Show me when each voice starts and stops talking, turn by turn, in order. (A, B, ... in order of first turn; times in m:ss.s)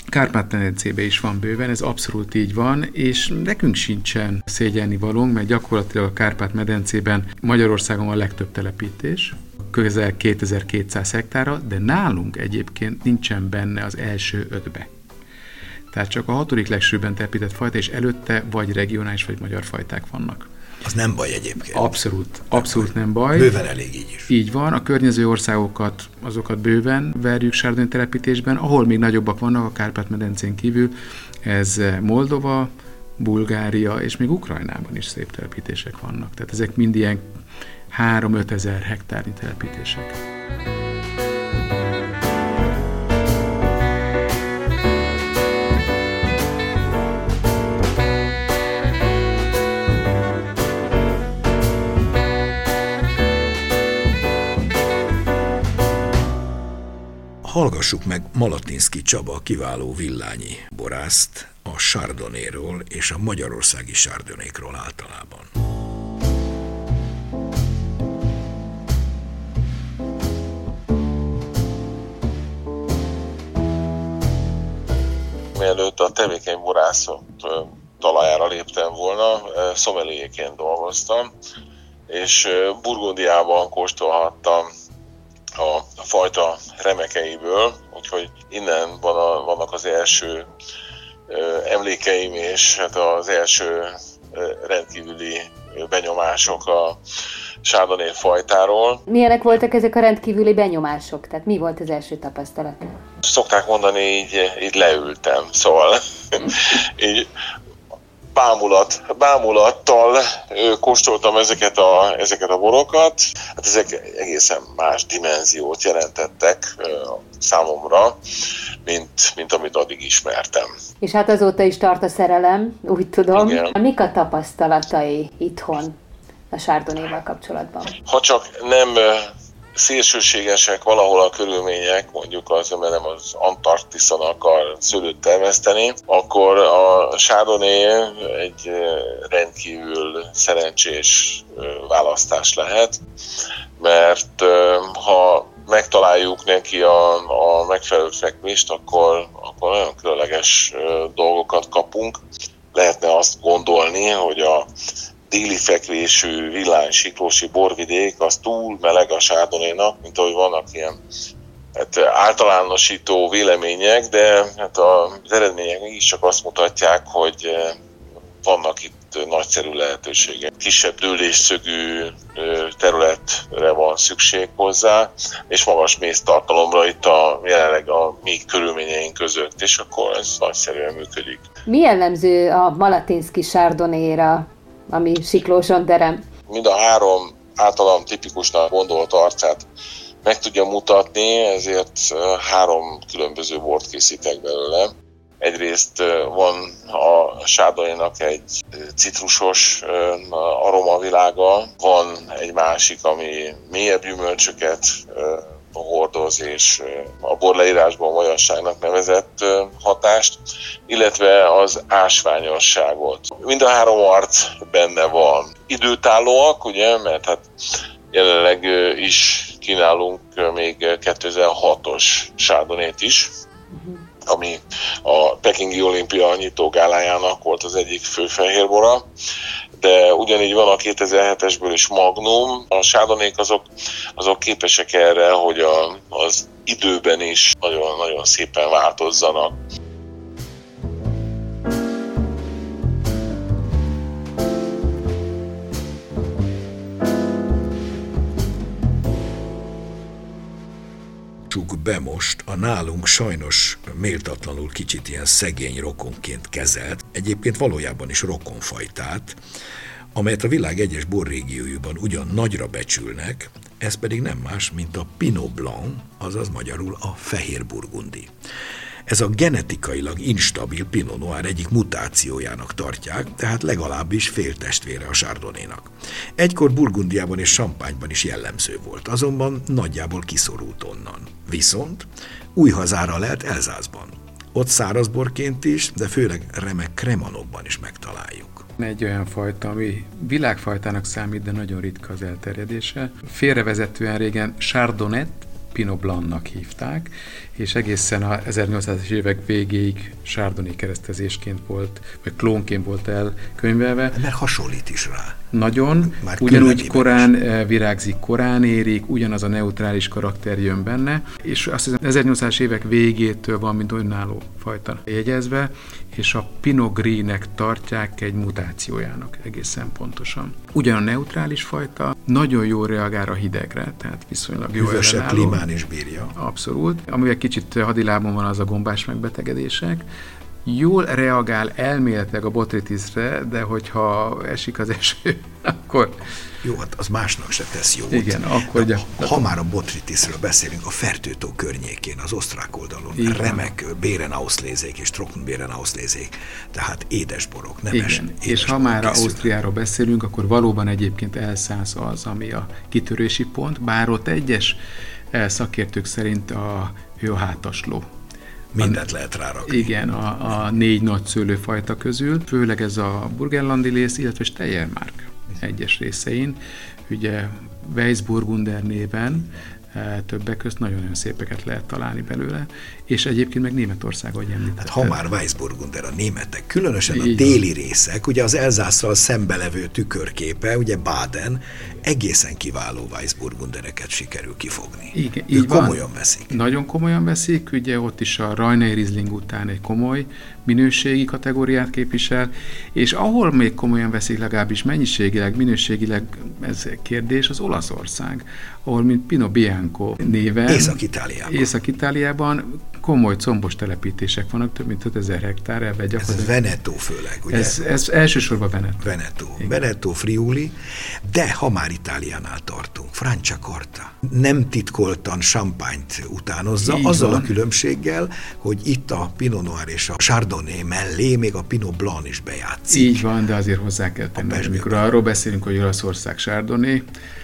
0:00.1-0:14.9 A
0:15.9-0:20.5 A
0:20.8-0:21.9 B
0:21.7-0:23.5 A
0:22.5-0:24.3 B
0:24.3-0:30.9 A
0:31.4-0:37.2 A
0:37.9-0:40.2 A
0:57.4-1:05.5 B
1:15.5-1:21.3 C
1:22.1-1:24.7 C
1:25.6-1:30.5 C
1:31.3-1:37.0 C
1:37.6-1:39.0 C
1:39.1-1:43.0 D
1:43.2-1:47.3 C
1:48.3-1:58.2 C
1:58.8-2:00.7 C
2:01.0-2:06.0 D
2:03.3-2:03.7 C
2:06.5-2:07.9 D
2:08.1-2:23.0 C
2:23.8-2:32.2 C
2:32.7-2:34.7 C
2:35.3-2:40.9 C
2:41.8-2:47.8 C
2:48.4-3:01.4 C
3:01.7-3:06.2 D
3:06.5-3:09.7 C
3:10.2-3:37.4 C
3:38.1-3:43.3 C
3:43.7-3:44.0 D
3:44.3-3:49.0 C
3:49.8-3:53.6 C
3:54.2-3:59.6 C
4:11.5-4:19.4 B
4:20.1-4:28.3 B
4:29.1-4:48.6 B
4:48.8-5:04.2 A
5:04.1-5:05.4 B
5:05.5-5:25.6 A
5:06.0-5:07.3 B
5:24.8-5:26.4 B
5:26.3-5:30.0 A
5:30.6-5:36.2 A
5:36.6-5:49.5 B
5:38.1-5:39.5 A
5:43.2-5:43.7 A
5:47.9-5:54.8 A
5:55.3-5:58.1 A
5:58.7-5:59.9 B
5:58.8-5:59.0 A
5:59.6-6:15.2 A
6:14.8-6:26.5 B
6:17.1-6:17.6 A
6:25.1-6:46.5 A
6:40.7-6:41.7 B
6:46.2-6:47.8 B
6:47.5-6:49.7 A
6:49.0-7:03.2 B
6:56.8-6:57.5 A
7:02.9-7:07.0 A
7:04.4-7:05.0 B